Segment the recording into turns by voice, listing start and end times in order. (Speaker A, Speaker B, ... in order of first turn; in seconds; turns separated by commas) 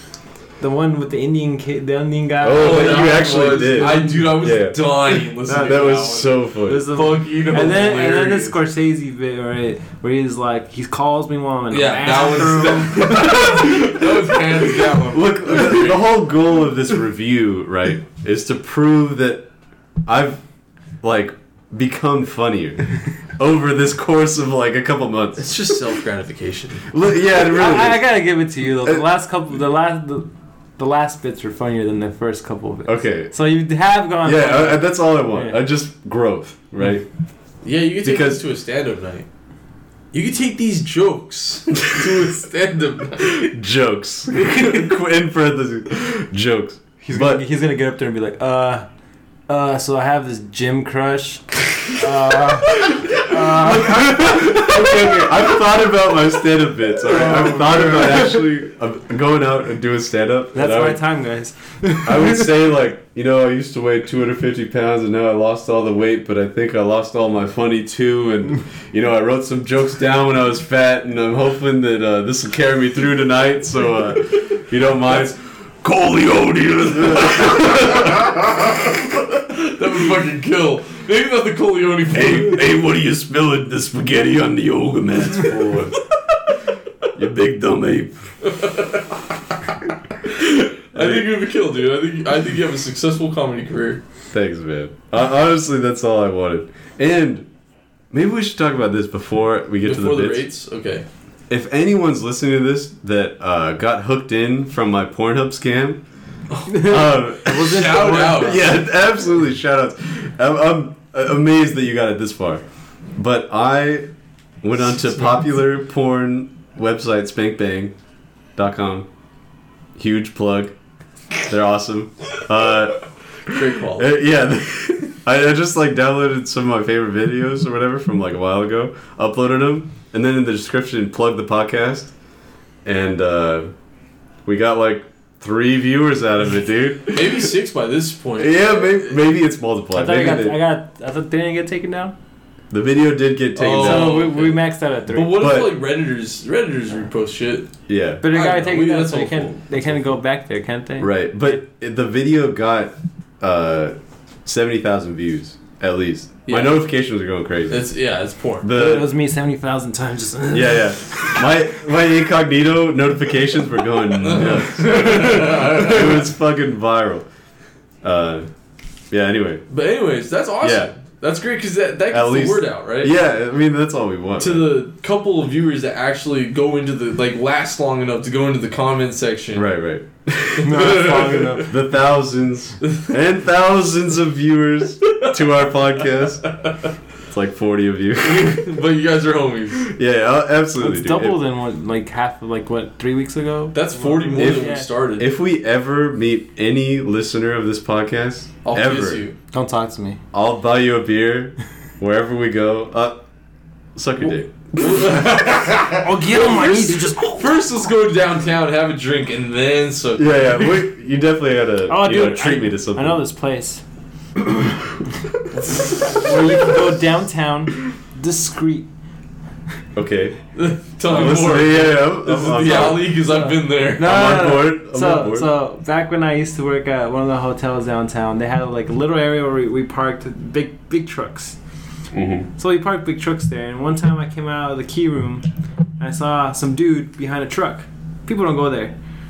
Speaker A: 0.6-4.2, Speaker B: 2.4-6.9, Speaker C: 2.5-8.6, Speaker A: 5.5-6.1, Speaker A: 6.6-13.7, Speaker C: 11.7-16.1, Speaker B: 13.0-14.2, Speaker B: 15.0-19.5, Speaker B: 20.1-20.4, Speaker B: 21.0-25.6, Speaker C: 25.4-26.9, Speaker B: 26.9-28.1, Speaker A: 27.4-35.6, Speaker B: 32.9-33.3, Speaker B: 34.2-37.1, Speaker C: 37.6-39.3, Speaker B: 38.0-38.4, Speaker C: 40.1-43.5, Speaker B: 43.3-47.4, Speaker C: 44.3-44.8, Speaker A: 47.0-48.9, Speaker A: 49.5-54.7, Speaker B: 53.3-61.0, Speaker C: 57.1-58.3, Speaker A: 57.1-58.0, Speaker A: 60.5-62.5, Speaker B: 62.0-79.0, Speaker C: 79.5-82.7, Speaker B: 82.1-86.0, Speaker B: 87.1-88.2, Speaker C: 88.5-88.9, Speaker C: 90.3-94.0, Speaker B: 91.0-91.2, Speaker B: 94.3-97.5, Speaker B: 98.1-100.5, Speaker C: 99.8-101.1, Speaker B: 101.5-106.0, Speaker A: 106.7-108.6, Speaker B: 106.7-112.6, Speaker C: 107.6-108.7, Speaker B: 113.2-114.1, Speaker B: 114.6-117.9, Speaker B: 118.6-119.1, Speaker B: 120.0-120.7, Speaker B: 121.5-132.1, Speaker C: 123.5-124.1, Speaker B: 132.8-133.7, Speaker B: 134.5-137.2, Speaker C: 137.1-139.2, Speaker B: 138.4-140.6, Speaker A: 139.9-142.2, Speaker B: 142.7-144.3, Speaker C: 143.6-149.6, Speaker A: 143.7-145.5, Speaker B: 145.3-145.7, Speaker B: 147.9-148.3, Speaker A: 148.2-151.1, Speaker B: 151.0-157.9, Speaker C: 156.5-156.8, Speaker C: 157.7-158.7, Speaker B: 158.6-159.1, Speaker A: 158.7-161.4, Speaker B: 160.5-167.3, Speaker C: 164.1-166.3, Speaker B: 168.0-168.5, Speaker B: 169.1-169.7, Speaker C: 169.7-173.1, Speaker B: 170.6-170.9, Speaker B: 172.1-174.8, Speaker C: 174.4-179.7, Speaker B: 179.5-186.5, Speaker C: 180.6-181.7, Speaker A: 180.6-181.7, Speaker C: 182.8-183.1, Speaker B: 187.3-188.7, Speaker C: 188.2-189.9, Speaker B: 189.8-191.4, Speaker A: 190.8-194.9, Speaker C: 193.7-195.3, Speaker B: 194.4-199.2, Speaker C: 198.6-199.3, Speaker A: 199.5-200.2, Speaker B: 200.3-203.2, Speaker B: 204.0-205.1, Speaker C: 204.8-210.9, Speaker A: 205.8-207.5, Speaker B: 210.2-213.2, Speaker A: 211.9-213.8, Speaker C: 215.7-216.0, Speaker A: 216.1-218.9, Speaker B: 220.0-220.4, Speaker C: 220.6-224.1, Speaker B: 221.1-223.3, Speaker A: 223.0-231.6, Speaker B: 224.0-225.5, Speaker B: 232.1-232.5, Speaker A: 232.6-235.5, Speaker A: 236.0-239.0